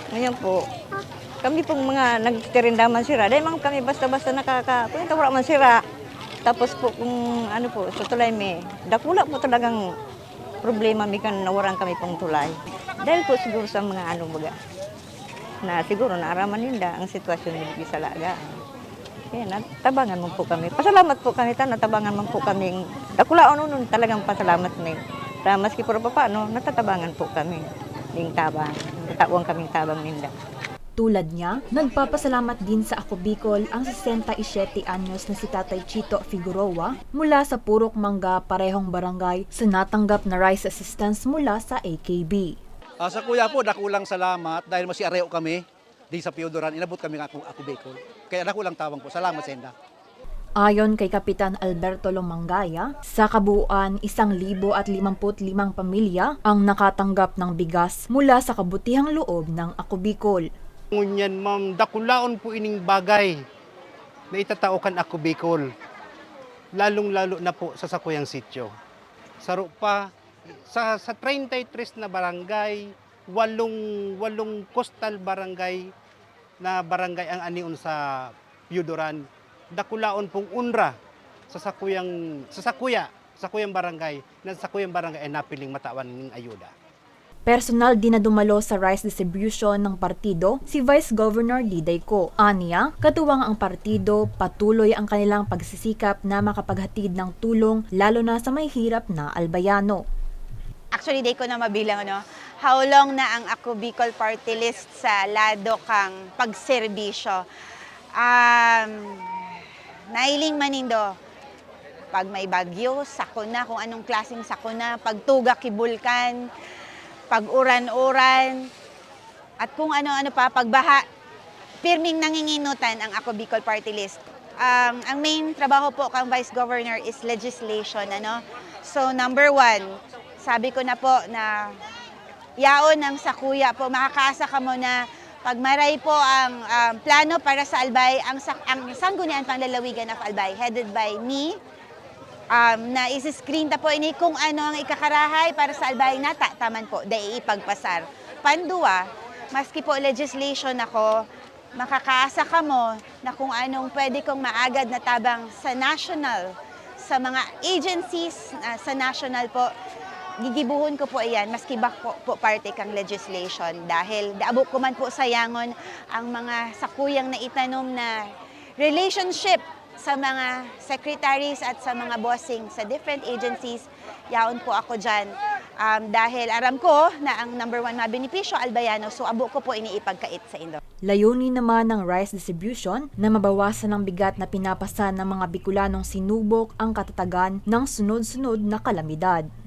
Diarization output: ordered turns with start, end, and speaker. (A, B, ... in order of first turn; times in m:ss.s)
0:00.1-0:00.6 A
0:01.4-0:05.8 A
0:06.5-0:09.8 A
0:10.6-0:14.6 A
0:15.6-0:18.4 A
0:19.3-0:30.3 A
0:31.0-0:42.6 B
0:43.0-0:49.8 C
0:50.6-1:00.5 B
1:00.9-1:03.4 D
1:04.3-1:05.7 D
1:06.8-1:08.7 D
1:09.4-1:15.9 D
1:16.6-1:21.0 D
1:21.5-1:26.7 D
1:27.5-1:40.0 B
1:40.9-1:47.4 E
1:48.2-1:49.5 E
1:50.1-1:51.0 E
1:52.1-1:56.4 E
1:57.3-1:58.7 E
1:59.6-2:01.0 E
2:01.8-2:11.7 E
2:12.6-2:21.5 E
2:22.5-2:31.2 E
2:31.8-2:36.5 E
2:37.0-2:39.7 E
2:40.4-2:48.2 E
2:48.8-3:00.8 E
3:01.1-3:09.5 B